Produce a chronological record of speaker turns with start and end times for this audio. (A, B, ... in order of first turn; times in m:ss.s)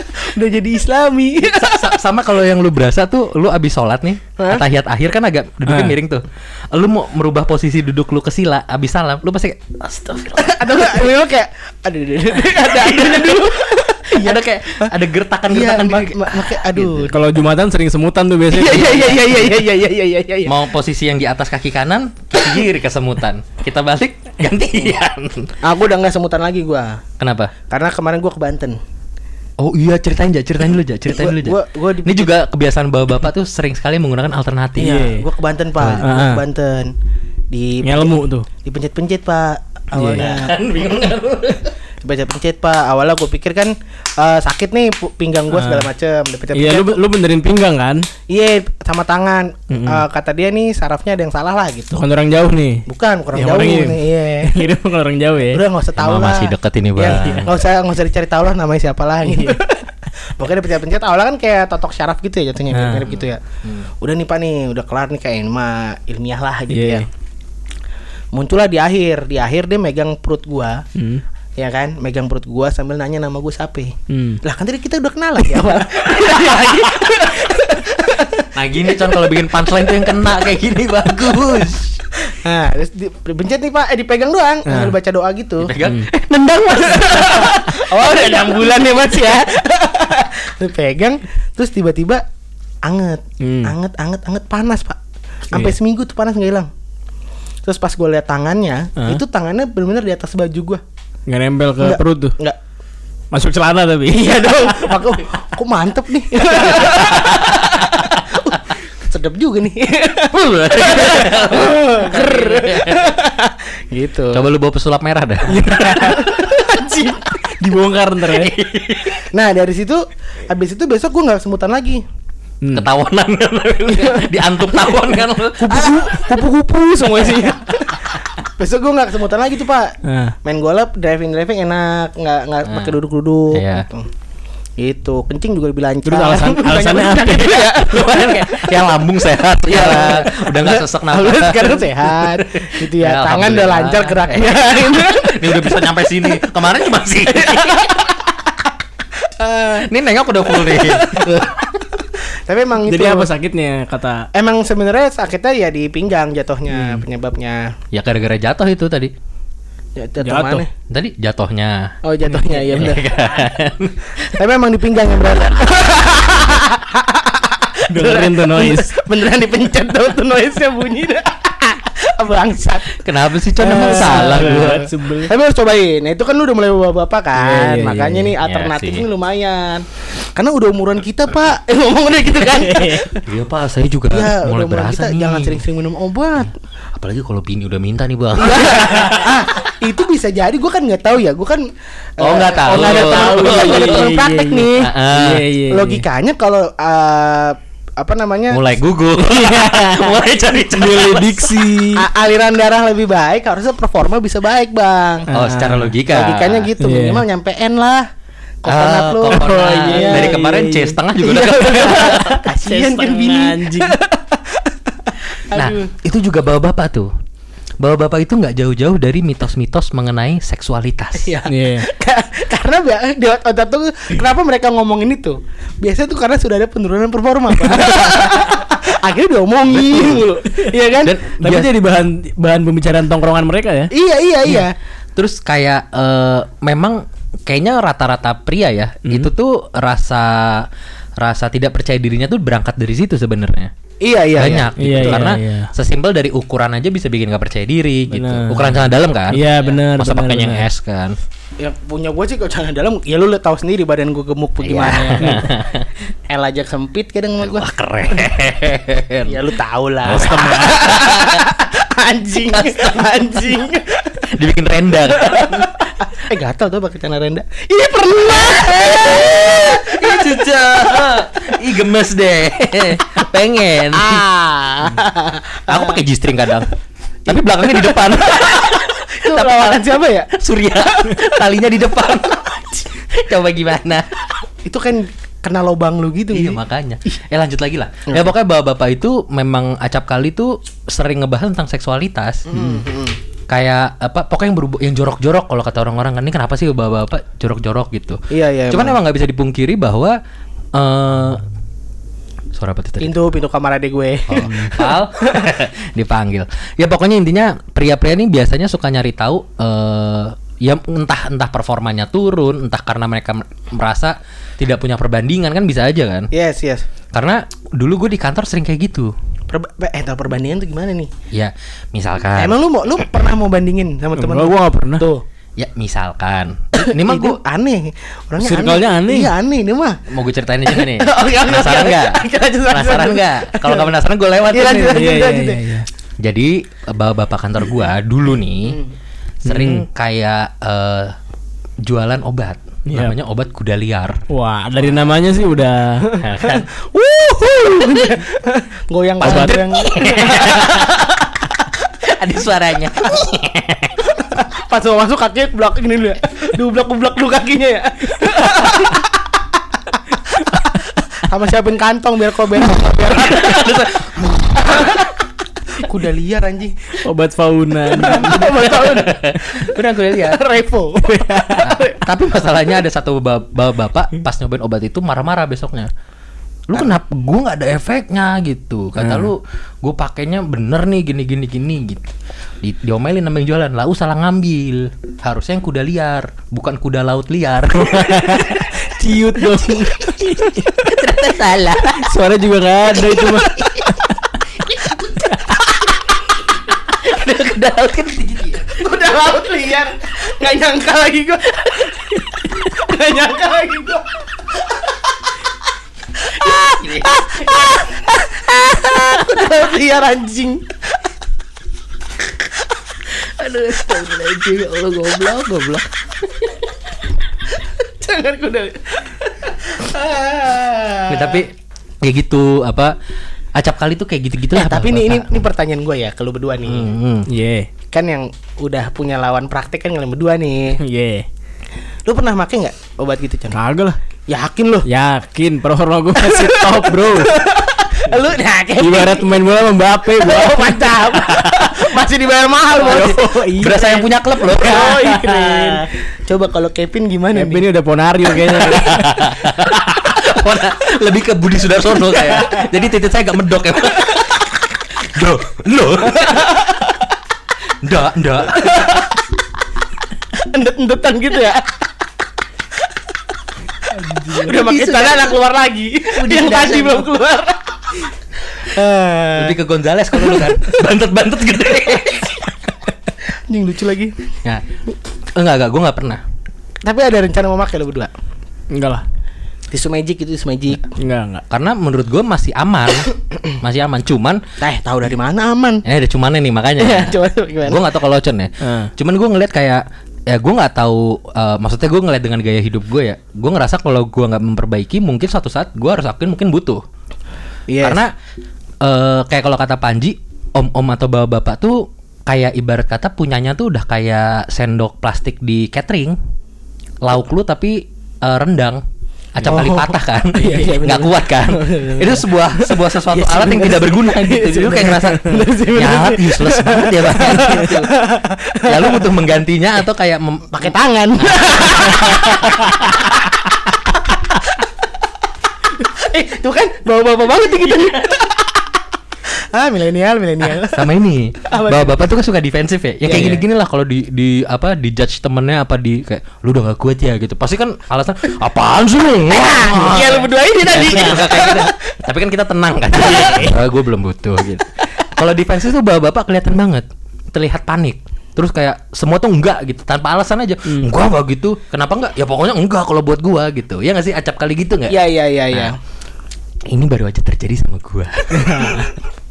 0:00.1-0:01.9 A
0:01.5-0:11.0 B
0:04.4-0:04.6 A
0:05.6-0:06.0 C
0:10.3-0:14.9 A
0:12.6-0:16.9 B
0:15.5-0:17.1 A
0:17.0-0:19.6 C
0:18.5-0:20.6 A
0:20.4-0:25.5 B
0:25.6-0:27.0 A
0:27.2-0:27.5 B
0:27.7-0:28.8 A
0:29.6-0:35.0 B
0:31.1-0:32.4 A
0:34.8-0:36.9 A
0:34.8-0:35.2 C
0:35.9-0:36.4 C
0:37.5-0:40.5 A
0:37.8-0:38.5 C
0:40.0-0:40.3 C
0:40.0-0:41.7 B
0:42.0-0:47.0 A
0:45.5-0:45.9 C
0:46.5-0:48.1 C
0:48.3-0:52.0 A
0:49.7-0:50.0 C
0:51.9-0:55.6 C
0:52.8-0:54.7 A
0:55.5-1:03.4 A
0:56.0-0:57.5 B
0:59.2-0:59.6 C
1:02.7-1:03.1 C
1:04.0-1:07.0 A
1:06.7-1:07.0 C
1:08.3-1:10.8 A
1:11.0-1:11.2 C
1:11.6-1:18.5 A
1:14.1-1:14.4 C
1:18.5-1:22.0 B
1:22.2-1:25.7 A
1:24.7-1:24.9 C
1:25.6-1:28.2 B
1:25.8-1:26.1 C
1:26.8-1:32.2 A
1:32.8-1:35.0 A
1:33.4-1:33.7 C
1:35.5-1:36.7 A
1:37.6-1:40.8 A
1:41.3-1:42.4 C
1:41.8-1:42.6 A
1:43.3-1:45.0 C
1:44.1-1:54.4 A
1:46.8-1:48.0 B
1:50.3-1:53.1 B
1:54.3-1:56.2 B
1:55.5-1:56.4 C
1:55.7-1:57.4 A
1:57.4-1:58.5 C
1:58.3-1:59.2 B
1:59.3-2:02.0 A
2:02.6-2:02.9 C
2:02.7-2:06.4 B
2:03.9-2:04.2 A
2:05.6-2:14.1 A
2:10.0-2:10.4 C
2:12.6-2:13.0 B
2:13.5-2:13.9 B
2:14.8-2:19.0 A
2:16.0-2:17.8 C
2:17.8-2:27.9 B
2:19.6-2:25.9 A
2:27.3-2:28.3 A
2:29.2-2:29.9 A
2:29.8-2:31.6 B
2:30.4-2:33.3 A
2:32.8-2:34.3 C
2:34.3-2:37.7 A
2:36.7-2:37.0 C
2:37.9-2:39.1 B
2:40.0-2:40.7 A
2:40.2-2:40.6 C
2:40.9-2:41.9 B
2:42.0-2:43.1 A
2:42.3-2:42.8 C
2:42.7-2:44.2 B
2:44.2-3:03.2 A
2:47.9-2:48.9 C
2:52.9-2:54.9 B
2:53.7-2:55.3 C
2:57.4-2:58.3 C
2:58.4-2:59.1 B
3:02.5-3:03.1 C
3:03.2-3:05.6 B
3:04.1-3:06.5 A
3:07.0-3:09.6 B
3:08.4-3:14.8 A
3:12.2-3:14.1 B
3:12.5-3:16.0 C
3:14.7-3:15.4 B
3:15.7-3:18.7 A
3:18.5-3:21.5 B
3:19.2-3:22.0 C
3:21.9-3:25.3 A
3:25.3-3:25.9 C
3:25.3-3:26.7 B
3:26.1-3:28.1 A
3:26.8-3:27.2 C
3:28.6-3:30.4 A
3:28.7-3:32.4 B
3:29.3-3:33.9 C
3:31.2-3:35.9 A
3:35.5-3:37.1 B
3:37.8-3:41.4 B
3:41.2-3:51.2 A
3:41.5-3:41.9 C
3:49.8-3:50.7 C
3:51.0-3:51.7 B
3:51.4-3:53.9 C
3:53.9-3:54.7 A
3:55.2-4:03.7 B
4:04.0-4:05.3 A
4:04.3-4:11.2 B
4:04.8-4:05.7 C
4:08.1-4:10.7 C
4:11.6-4:15.6 A
4:14.6-4:15.9 B
4:15.2-4:15.5 C
4:16.3-4:17.7 A
4:17.4-4:19.4 B
4:19.2-4:24.3 A
4:20.0-4:21.5 B
4:20.1-4:21.0 C
4:22.5-4:23.3 B
4:24.3-4:25.8 B
4:25.1-4:30.6 A
4:28.2-4:34.2 B
4:33.9-4:36.0 A
4:35.7-4:36.7 B
4:37.2-4:44.2 B
4:37.3-4:40.3 A
4:40.8-4:41.2 A
4:44.6-4:46.6 A
4:46.3-4:52.8 B
4:52.5-4:53.2 A
4:53.5-5:00.2 B
4:58.3-4:59.0 A
5:00.7-5:01.4 B
5:02.5-5:03.2 B
5:03.0-5:05.4 A
5:04.3-5:16.3 B
5:16.3-5:16.9 A
5:17.1-5:19.1 B
5:19.5-5:21.1 A
5:21.3-5:22.6 B
5:22.4-5:25.2 A
5:24.2-5:25.0 C
5:25.6-5:27.4 B
5:26.7-5:30.0 A
5:28.4-5:29.3 C
5:30.1-5:35.1 B
5:30.7-5:33.9 A
5:34.5-5:35.6 A
5:34.7-5:35.8 C
5:36.2-5:38.8 B
5:39.4-5:41.2 B
5:39.4-5:39.8 C
5:41.8-5:44.2 B
5:42.9-5:43.1 C
5:44.3-5:46.1 C
5:46.1-5:51.4 A
5:46.2-5:46.7 B
5:49.2-5:51.1 B
5:49.2-5:49.7 C
5:52.0-5:54.0 B
5:54.1-5:59.3 A
6:00.5-6:03.7 A
6:02.7-6:05.1 B
6:04.7-6:05.1 A
6:05.7-6:07.0 A
6:07.0-6:08.9 C
6:07.9-6:12.0 A
6:08.2-6:10.4 B
6:11.0-6:11.8 C
6:11.6-6:15.9 B
6:16.7-6:28.7 B
6:19.0-6:19.3 C
6:27.8-6:30.9 C
6:30.8-6:32.1 B
6:32.0-6:34.1 C
6:33.2-6:33.9 B
6:34.6-6:36.1 B
6:36.7-6:38.7 B
6:38.7-6:44.2 A
6:46.2-6:50.7 A
6:46.4-6:47.7 B
6:53.1-6:55.9 B
6:57.6-7:01.4 A
7:01.1-7:01.5 B
7:02.0-7:02.9 B
7:03.5-7:05.3 B
7:04.5-7:06.9 A
7:06.6-7:07.3 B
7:07.3-7:07.7 C
7:07.9-7:10.8 A
7:10.8-7:11.3 C
7:12.1-7:13.6 A
7:13.5-7:14.0 C
7:14.3-7:14.9 A
7:14.8-7:17.3 C
7:16.2-7:19.4 A
7:18.8-7:21.1 C
7:20.1-7:23.3 A
7:22.8-7:24.1 C
7:22.9-7:25.1 B
7:24.5-7:27.6 A
7:24.6-7:25.8 C
7:27.3-7:29.3 C
7:28.7-7:36.5 B
7:36.1-7:36.9 A
7:37.8-7:39.1 B
7:38.5-7:39.1 A
7:40.3-7:41.7 A
7:43.9-7:44.5 C
7:44.2-7:47.8 A
7:44.5-7:45.4 B
7:46.1-7:47.1 B
7:48.5-7:49.6 A
7:49.3-7:52.5 B
7:50.1-7:50.6 A
7:53.3-7:54.2 A
7:55.3-7:56.2 B
7:56.8-7:58.1 A
7:58.7-7:59.0 C
7:59.7-8:00.9 A
8:01.0-8:01.4 C
8:01.5-8:04.4 B
8:04.6-8:05.8 A
8:05.8-8:16.8 B
8:06.8-8:07.8 A
8:08.6-8:08.9 C
8:17.7-8:18.0 A
8:17.8-8:18.1 B
8:18.8-8:26.2 B
8:27.0-8:28.8 B
8:29.3-8:37.9 B
8:29.4-8:39.1 A
8:38.6-8:43.1 B
8:40.5-8:43.5 A
8:44.1-8:44.6 A
8:45.8-8:48.5 A
8:49.4-8:50.9 A
8:50.6-9:15.7 B
8:51.4-8:52.1 A
8:53.0-8:53.4 A
8:59.3-9:01.8 A
9:03.0-9:03.6 A
9:14.9-9:15.8 A
9:16.7-9:18.9 B
9:18.4-9:18.9 C